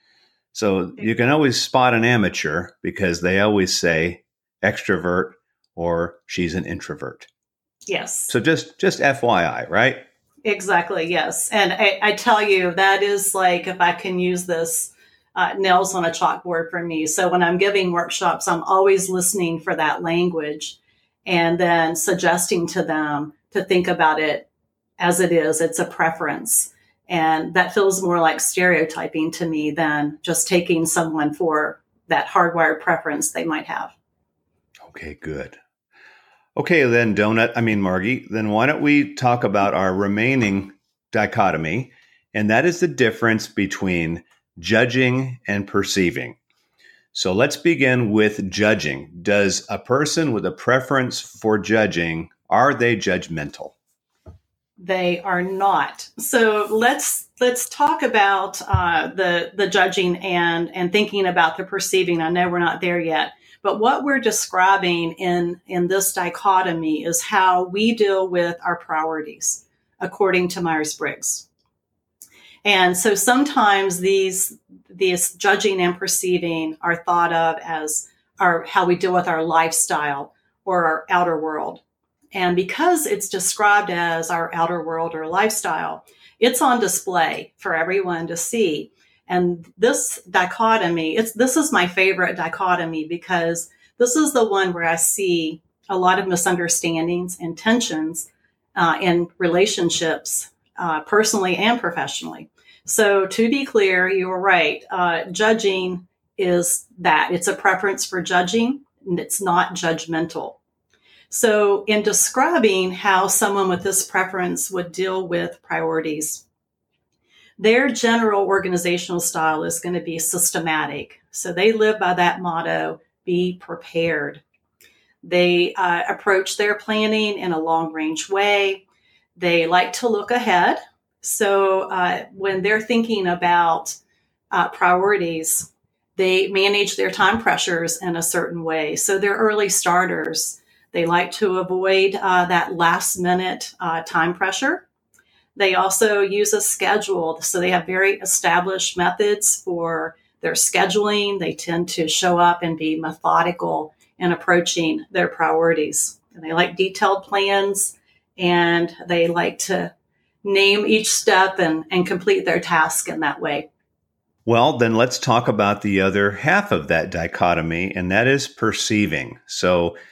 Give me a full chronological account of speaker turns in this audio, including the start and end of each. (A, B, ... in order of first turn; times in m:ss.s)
0:00.5-0:07.3 A
0:07.9-0:08.3 B
0:08.3-0:10.1 A
0:10.4-0:24.5 B
0:25.0-0:33.9 B
0:34.9-0:35.6 A
0:36.6-0:46.4 A
0:47.1-0:53.8 A
0:54.8-1:11.5 B
1:12.6-1:21.8 B
1:22.3-1:50.6 B
1:51.3-1:56.4 B
1:57.6-2:04.4 B
2:05.2-2:08.8 B
2:09.4-2:14.0 B
2:14.5-2:24.9 B
2:25.6-2:39.9 B
2:40.4-2:43.7 B
2:44.4-2:50.0 A